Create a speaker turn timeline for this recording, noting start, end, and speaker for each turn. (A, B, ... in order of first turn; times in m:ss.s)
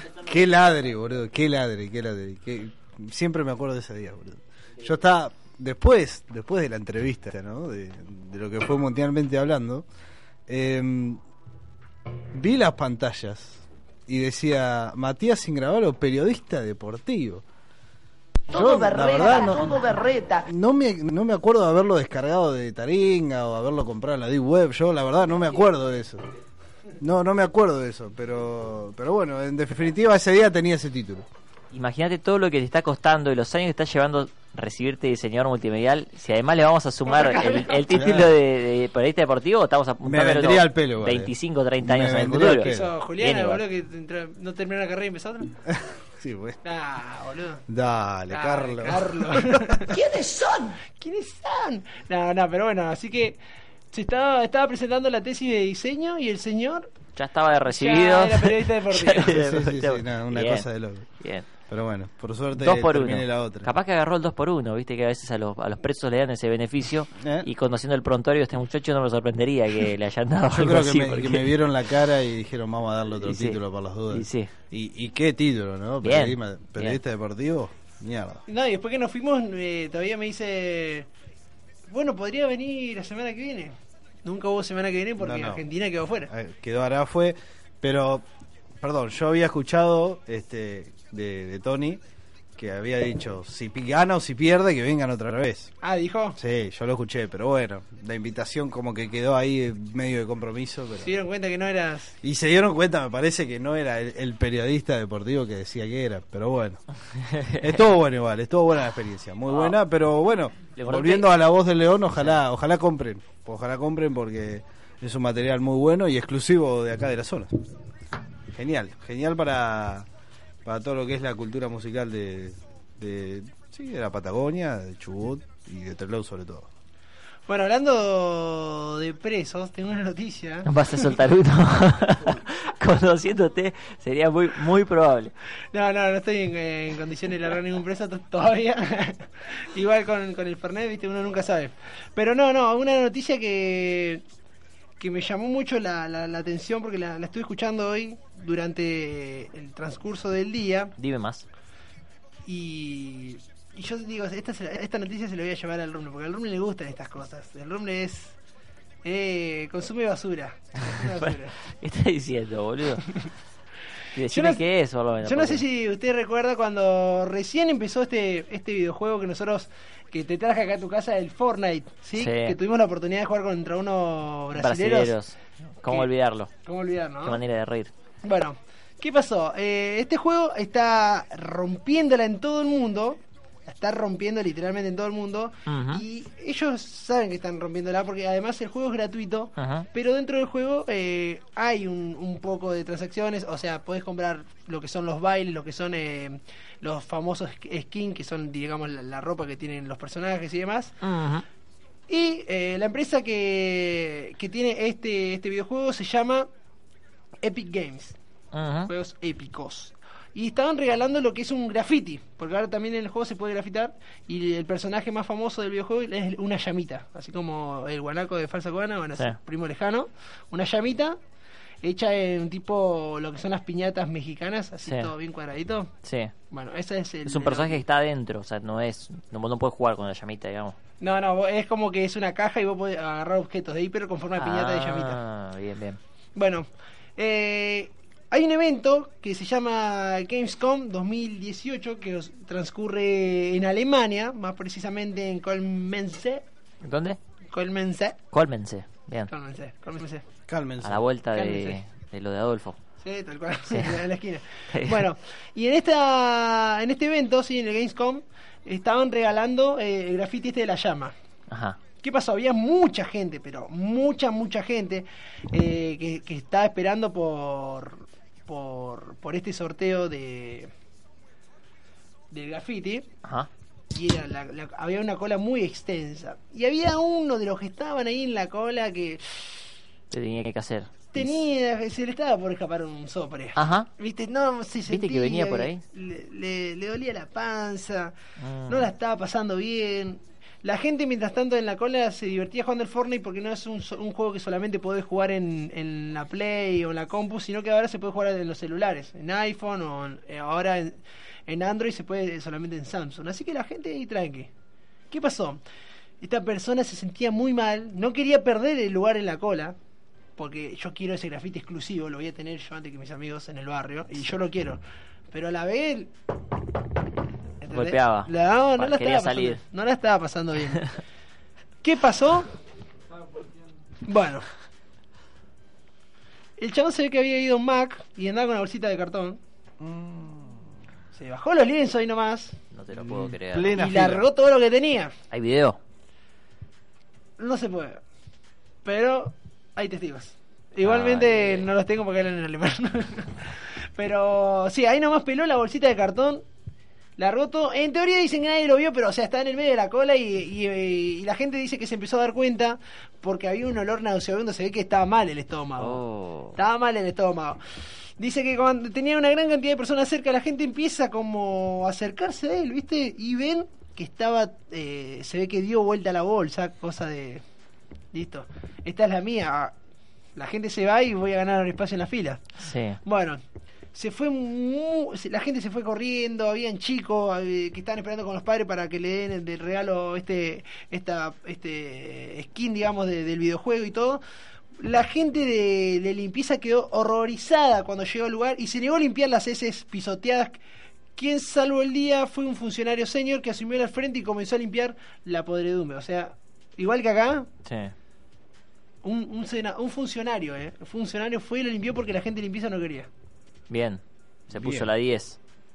0:00.2-0:09.9 A
0:10.5-0:11.2 A
0:12.3-0:17.4 A
0:18.5-0:19.8 A
0:18.5-0:20.5 B
0:20.4-0:26.3 A
0:27.0-0:31.3 A
0:31.7-0:43.6 C
0:37.2-0:37.8 D
0:37.9-0:38.3 A
0:40.0-0:42.9 A
0:42.6-0:45.5 D
0:45.6-0:46.6 A
0:46.6-0:47.6 D
0:47.7-0:49.9 A
0:48.3-0:49.9 D
0:49.9-0:50.8 B
0:51.0-0:53.4 D
0:53.9-0:56.9 D
0:57.2-1:00.7 C
0:57.7-0:59.4 D
0:59.2-1:01.1 A
1:01.2-1:01.4 C
1:01.7-1:03.7 A
1:02.6-1:11.5 C
1:07.2-1:07.5 A
1:10.5-1:18.4 A
1:13.2-1:14.5 C
1:16.0-1:17.0 C
1:18.5-1:21.1 D
1:21.9-1:26.3 D
1:25.2-1:25.6 A
1:26.3-1:28.2 A
1:28.8-1:32.0 A
1:32.6-1:35.7 A
1:35.8-1:36.4 D
1:36.4-1:41.1 A
1:41.0-1:42.2 D
1:42.2-1:46.8 A
1:47.2-1:47.7 C
1:47.6-1:57.6 A
1:49.5-1:49.8 C
1:50.8-1:51.3 C
1:58.5-2:00.1 A
2:00.6-2:06.7 A
2:07.5-2:11.1 D
2:10.7-2:15.3 C
2:15.7-2:24.2 D
2:25.0-2:30.9 D
2:31.0-2:31.4 C
2:32.5-2:38.3 D
2:39.0-2:41.6 D
2:41.1-2:43.2 C
2:44.1-2:45.6 C
2:44.3-2:44.6 D
2:45.2-2:55.1 D
2:52.2-2:52.6 C
2:54.5-2:56.5 C
2:56.6-2:57.4 D
2:57.2-2:57.9 C
2:58.2-3:20.9 D
3:05.7-3:06.0 C
3:09.6-3:09.9 C
3:21.0-3:21.4 C
3:22.1-3:26.5 D
3:27.4-3:28.2 D
3:28.5-3:28.9 C
3:28.9-3:41.2 D
3:41.8-3:45.9 D
3:44.8-3:45.1 C
3:46.0-3:46.3 C
3:46.5-3:47.8 D
3:47.3-3:50.8 C
3:51.0-3:55.2 D
3:54.4-3:56.0 C
3:56.4-3:56.7 D
3:57.2-4:06.4 D
4:06.8-4:07.2 C
4:07.5-4:08.2 D
4:08.3-4:09.3 C
4:09.3-4:10.2 D
4:10.5-4:11.1 A
4:10.8-4:12.8 C
4:11.3-4:11.8 D
4:13.0-4:21.1 D
4:13.7-4:14.0 C
4:14.7-4:15.0 C
4:21.5-4:21.8 C
4:22.0-4:30.7 D
4:32.3-4:33.1 D
4:33.2-4:33.5 C
4:33.9-4:39.7 D
4:40.1-4:41.4 C
4:41.1-4:48.2 D
4:43.6-4:43.9 C
4:44.9-4:45.8 C
4:48.4-4:48.9 C
4:48.7-5:04.5 D
5:05.1-5:05.6 D
5:06.2-5:09.8 D
5:10.4-5:14.8 D
5:15.3-5:16.1 D
5:17.6-5:20.9 D
5:17.7-5:19.6 C
5:21.8-5:22.5 D
5:24.0-5:24.5 D
5:26.6-5:29.4 D
5:29.8-5:30.7 A
5:31.1-5:32.6 D
5:32.7-5:33.9 C
5:32.9-5:34.3 A
5:33.8-5:35.2 D
5:35.3-5:35.8 C
5:37.4-5:38.0 D
5:38.8-5:46.4 D
5:40.8-5:41.7 C
5:47.2-5:56.0 D
5:55.8-5:56.6 C
5:56.6-5:57.6 D
5:58.2-6:07.4 D
6:08.1-6:09.7 D
6:10.4-6:12.4 D
6:12.6-6:13.0 C
6:13.0-6:13.4 D
6:13.9-6:24.2 D
6:24.8-6:30.6 D
6:31.2-6:37.5 D
6:37.6-6:37.9 C
6:39.0-6:43.1 D
6:43.7-6:45.4 C
6:44.5-6:44.9 A